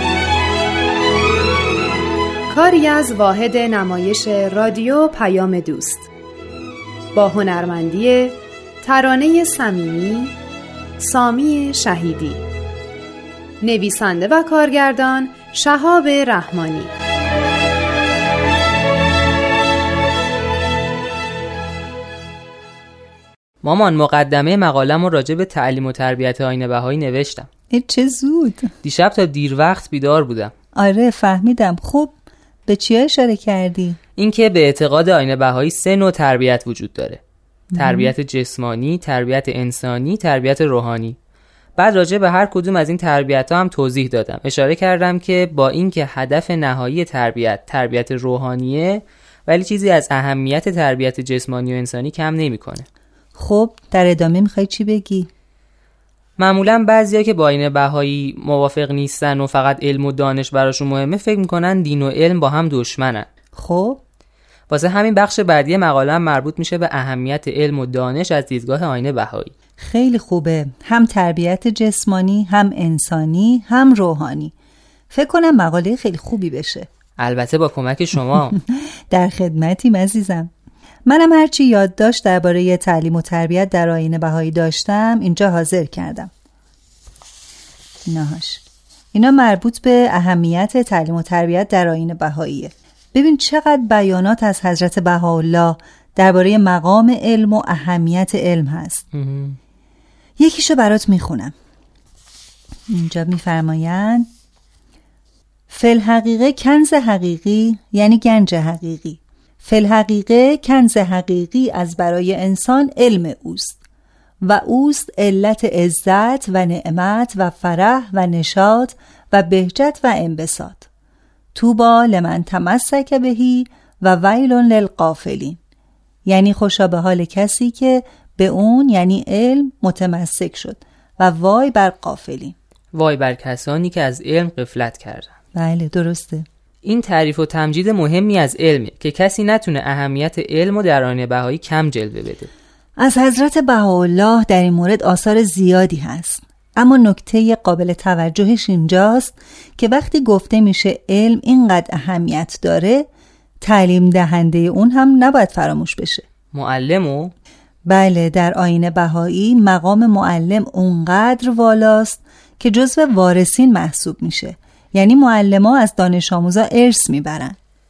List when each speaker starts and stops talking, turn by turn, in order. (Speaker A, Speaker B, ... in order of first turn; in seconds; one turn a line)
Speaker A: 2.5-6.1
Speaker A: 7.1-10.4
Speaker A: 11.0-12.4
Speaker A: 13.6-16.9
Speaker B: 23.6-27.5
Speaker C: 27.7-28.7
Speaker B: 28.8-30.5
Speaker C: 30.8-32.1
Speaker C: 32.7-34.0
Speaker B: 34.2-37.2
Speaker C: 37.7-38.1
Speaker B: 37.8-41.2
Speaker B: 41.8-52.9
Speaker C: 53.4-55.3
Speaker B: 56.4-63.3
Speaker C: 63.5-64.0
Speaker B: 64.7-69.5
Speaker C: 69.8-74.5
Speaker C: 75.1-76.9
Speaker B: 77.2-78.6
Speaker C: 79.1-80.5
Speaker C: 81.1-86.3
Speaker C: 88.1-99.0
Speaker B: 99.1-99.6
Speaker C: 100.4-101.5
Speaker C: 102.9-104.3
Speaker C: 105.7-113.8
Speaker C: 114.4-120.9
Speaker C: 121.5-125.6
Speaker C: 126.3-132.6
Speaker B: 132.9-135.3
Speaker C: 135.6-136.5
Speaker B: 136.8-142.5
Speaker C: 143.0-153.1
Speaker C: 153.6-156.2
Speaker B: 156.5-157.3
Speaker C: 157.9-167.6